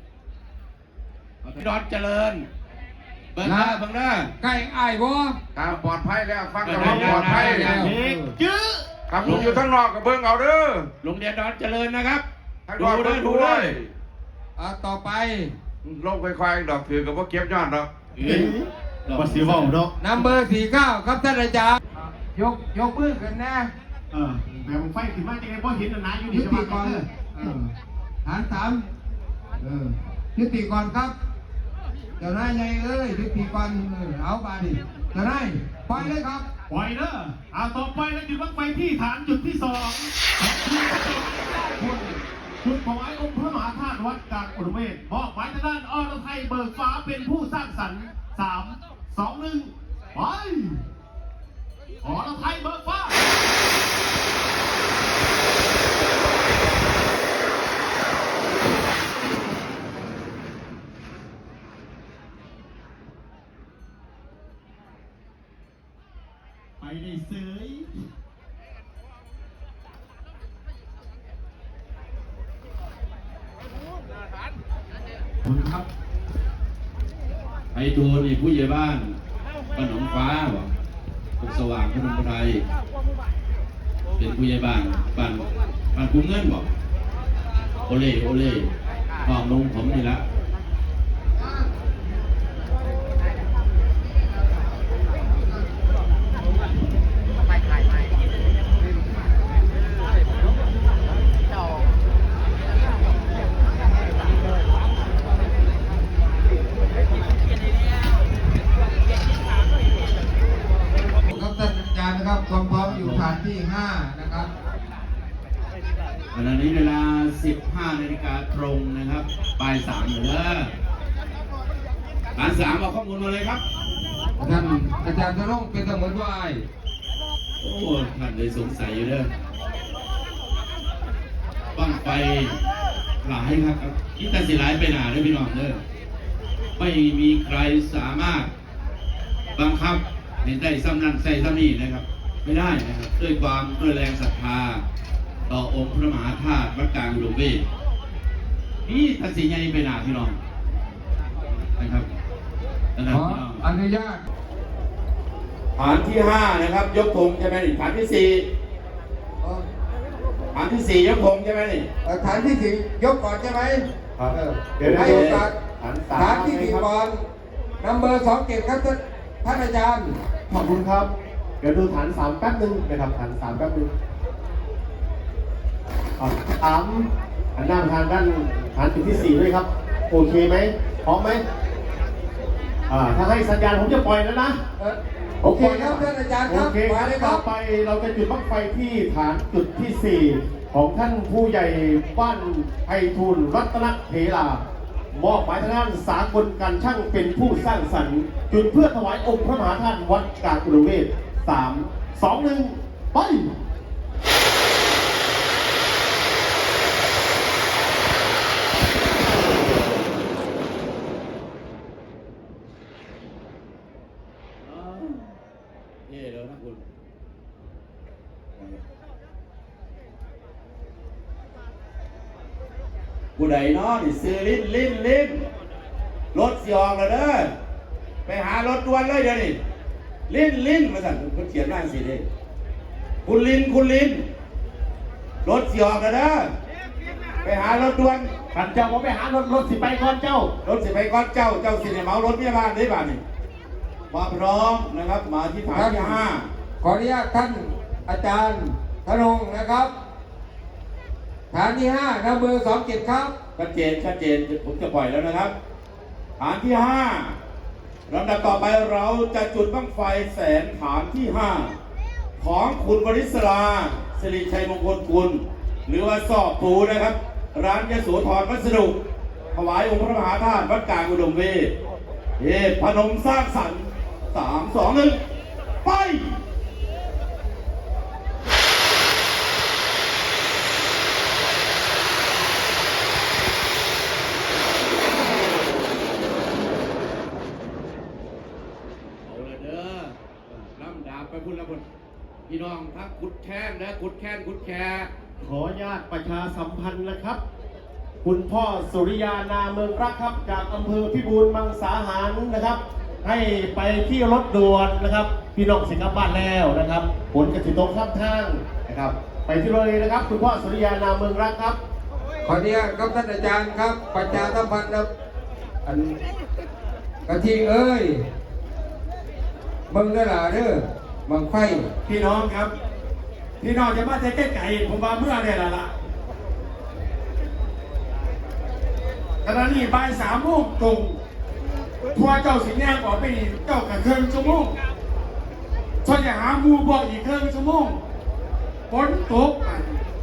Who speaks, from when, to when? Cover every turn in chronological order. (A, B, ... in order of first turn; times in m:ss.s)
0:01.4-0:02.5 A
0:03.3-0:04.3 A
0:03.4-0:03.8 B
0:04.4-0:05.4 B
0:05.6-0:07.7 C
0:06.6-0:07.8 A
0:06.7-0:09.5 D
0:07.3-0:08.3 B
0:09.1-0:10.9 C
0:09.2-0:09.6 A
0:11.0-0:12.2 A
0:12.7-0:13.9 C
0:12.8-0:13.8 A
0:14.6-0:15.5 B
0:15.8-0:17.9 C
0:18.2-0:19.7 A
0:18.2-0:19.9 D
0:20.0-0:23.7 B
0:24.1-0:27.0 D
0:26.3-0:27.7 B
0:28.2-0:28.8 B
0:29.6-0:31.1 B
0:32.2-0:36.5 B
0:36.7-0:50.8 D
0:52.0-0:53.2 D
1:06.8-1:07.9 D
1:15.5-1:15.9 D
1:17.7-1:19.2 A
1:19.8-1:20.7 A
1:21.4-1:22.6 A
1:24.2-1:26.7 A
1:27.9-1:28.7 A
1:29.2-1:30.2 A
1:51.2-1:54.5 B
1:52.8-1:53.3 A
1:56.3-2:00.7 A
2:02.4-2:03.6 A
2:04.4-2:06.6 B
2:07.6-2:09.3 A
2:11.8-2:12.6 A
2:13.2-2:15.8 A
2:16.8-2:18.5 A
2:19.6-2:24.8 A
2:25.5-2:27.6 A
2:28.8-2:30.4 A
2:31.8-2:32.1 A
2:33.0-2:33.6 A
2:33.1-2:34.2 B
2:35.8-2:38.4 A
2:40.5-2:41.9 A
2:42.0-2:45.5 B
2:44.2-2:46.9 D
2:44.9-2:45.4 A
2:46.1-2:47.2 B
2:47.8-2:50.1 B
2:50.5-2:53.9 D
2:56.2-3:01.4 D
3:02.9-3:04.6 D
3:04.8-3:07.4 B
3:05.4-3:14.6 D
3:15.1-3:23.5 D
3:34.6-3:35.4 A
3:36.1-3:36.8 A
3:38.6-3:38.8 A
3:43.4-3:45.5 A
3:46.3-3:47.5 A
3:48.3-3:49.6 A
3:50.3-3:52.2 A
3:53.2-3:54.2 A
3:55.4-3:56.5 A
3:57.4-3:58.3 A
3:58.5-4:00.5 D
4:00.6-4:03.2 A
4:04.1-4:06.5 A
4:05.7-4:06.2 B
4:06.8-4:09.9 B
4:11.5-4:13.3 B
4:13.6-4:15.5 A
4:16.4-4:17.4 A
4:18.1-4:21.7 A
4:22.4-4:29.0 A
4:29.5-4:31.7 A
4:32.4-4:35.2 A
4:35.8-4:36.4 A
4:49.2-4:51.9 A
4:52.5-4:55.1 A
4:55.4-4:57.4 D
4:58.2-5:11.8 D
5:12.4-5:15.1 B
5:15.8-5:16.2 B
5:17.3-5:18.2 B
5:19.9-5:21.9 B
5:22.0-5:22.7 E
5:23.6-5:25.9 E
5:29.4-5:31.2 E
5:32.1-5:34.8 E
5:36.0-5:38.0 E
5:38.9-5:40.0 E